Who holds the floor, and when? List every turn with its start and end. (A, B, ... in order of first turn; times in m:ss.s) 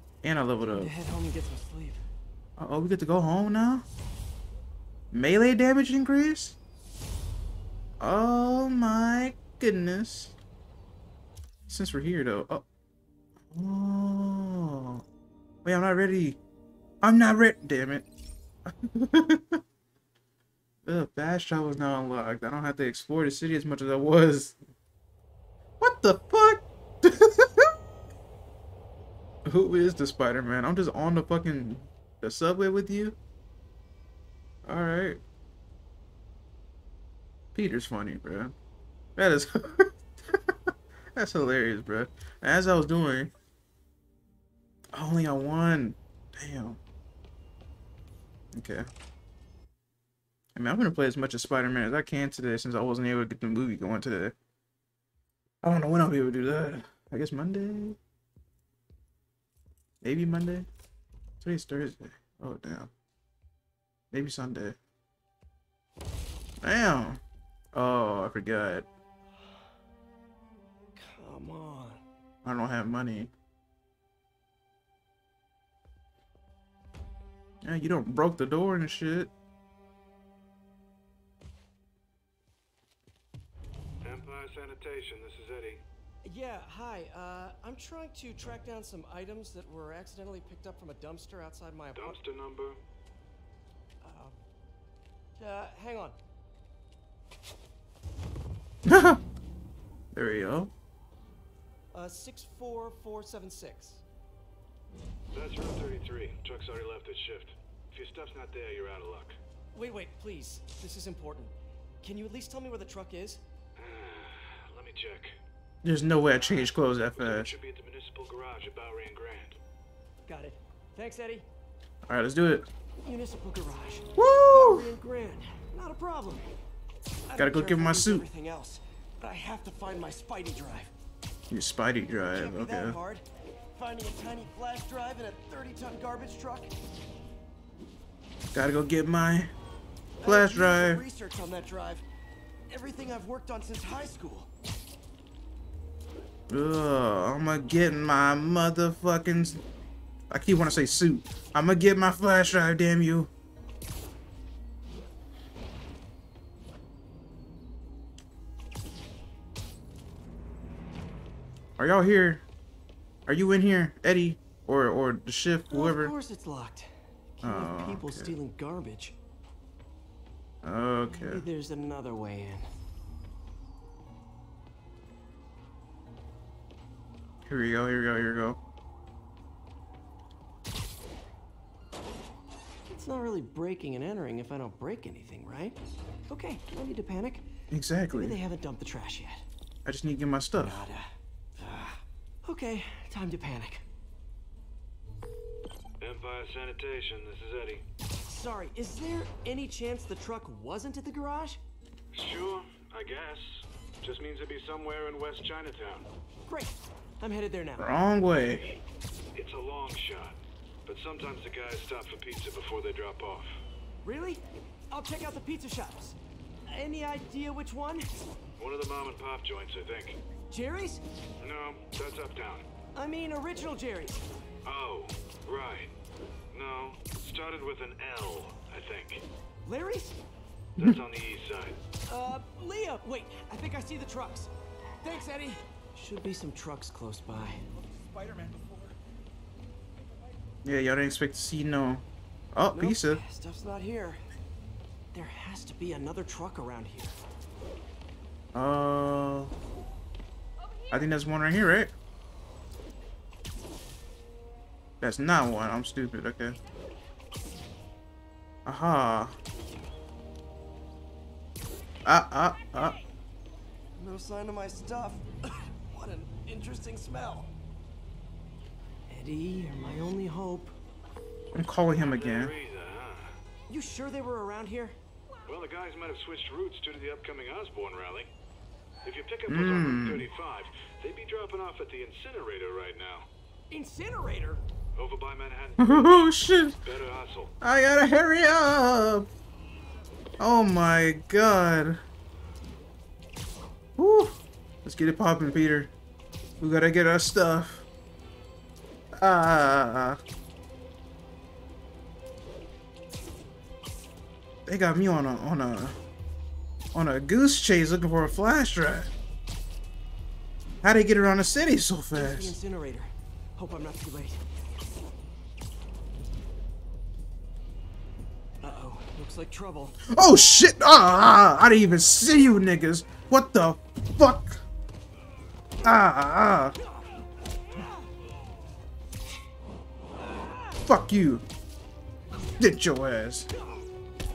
0:00.2-0:00.9 A
0:00.7-0:02.0 B
0:02.6-0:03.8 A
0:05.1-0:06.6 A
0:08.0-0:10.3 A
0:11.7-0:12.6 A
0:13.5-0:15.0 A
0:15.6-0:16.4 A
0:17.0-0:18.0 A
0:18.6-0:19.6 A
0:20.8-0:24.6 A
0:25.8-0:27.7 A
0:29.4-0:33.2 A
0:34.6-0:35.2 A
0:37.5-0:38.5 A
0:39.2-0:40.5 A
0:41.2-0:43.3 A
0:44.9-0:46.8 A
0:48.5-0:48.9 A
0:50.5-0:54.3 A
0:55.6-0:58.0 A
1:00.0-1:00.7 A
1:01.4-1:02.9 A
1:04.1-1:04.8 A
1:06.6-1:07.2 A
1:07.7-1:08.9 A
1:11.0-1:12.0 B
1:12.4-1:13.3 A
1:17.6-1:19.3 A
1:24.0-1:25.8 C
1:26.2-1:32.2 B
1:31.9-1:32.8 C
1:34.0-1:34.4 B
1:35.4-1:36.2 B
1:38.8-1:39.2 A
1:40.1-1:40.7 A
1:41.9-1:44.0 B
1:45.3-1:49.4 C
1:49.7-1:53.4 B
1:53.8-1:55.4 C
1:55.8-1:57.5 A
1:56.2-1:59.6 C
2:00.2-2:01.5 B
2:02.1-2:02.7 A
2:03.0-2:06.5 B
2:04.2-2:04.9 A
2:07.3-2:10.9 B
2:07.3-2:08.3 A
2:11.5-2:13.0 A
2:12.3-2:16.7 B
2:18.5-2:19.5 A
2:20.2-2:22.0 B
2:20.2-2:21.0 A
2:22.7-2:24.5 B
2:26.5-2:29.6 A
2:30.3-2:33.3 A
2:41.8-2:42.4 A
2:43.3-2:46.1 A
2:45.7-2:49.2 B
2:47.4-2:48.3 A
2:50.6-2:51.4 A
2:51.0-2:52.7 B
2:57.4-2:58.6 A
3:02.9-3:07.5 B
3:07.7-3:08.4 A
3:08.1-3:09.4 B
3:09.8-3:10.8 A
3:10.6-3:13.8 B
3:16.0-3:17.8 C
3:18.3-3:21.6 B
3:22.1-3:26.1 C
3:26.4-3:28.0 B
3:27.8-3:28.6 A
3:28.4-3:28.7 C
3:29.3-3:33.6 C
3:34.0-3:36.2 B
3:36.7-3:38.1 B
3:38.6-3:40.2 C
3:40.5-3:41.0 B
3:41.4-3:42.6 C
3:42.9-3:44.2 B
3:44.6-3:45.9 C
3:46.5-3:49.2 C
3:49.6-3:50.2 B
3:50.8-3:51.8 C
3:52.1-3:54.5 B
3:55.0-3:58.9 B
4:00.6-4:03.2 A
4:02.7-4:04.2 B
4:05.1-4:07.2 B
4:08.5-4:09.5 A
4:10.9-4:11.9 A
4:15.0-4:16.6 A
4:18.6-4:19.3 A
4:22.0-4:23.0 A
4:24.0-4:27.5 B
4:29.1-4:30.7 B
4:31.5-4:32.5 A
4:31.9-4:33.4 C
4:33.7-4:35.0 B
4:35.4-4:38.3 C
4:39.0-4:43.3 C
4:39.5-4:40.3 A
4:43.7-4:44.6 B
4:45.0-4:47.5 C
4:45.8-4:46.8 A
4:47.6-4:49.3 A
4:50.4-4:52.0 A
4:54.0-4:55.9 A
4:56.6-4:57.8 A
4:59.1-5:00.2 A
5:04.6-5:06.0 A
5:06.9-5:09.1 A
5:10.8-5:12.5 A
5:12.1-5:14.4 B
5:18.6-5:20.0 B
5:20.1-5:24.6 A
5:25.8-5:26.8 A
5:30.8-5:31.4 A
5:32.6-5:33.5 A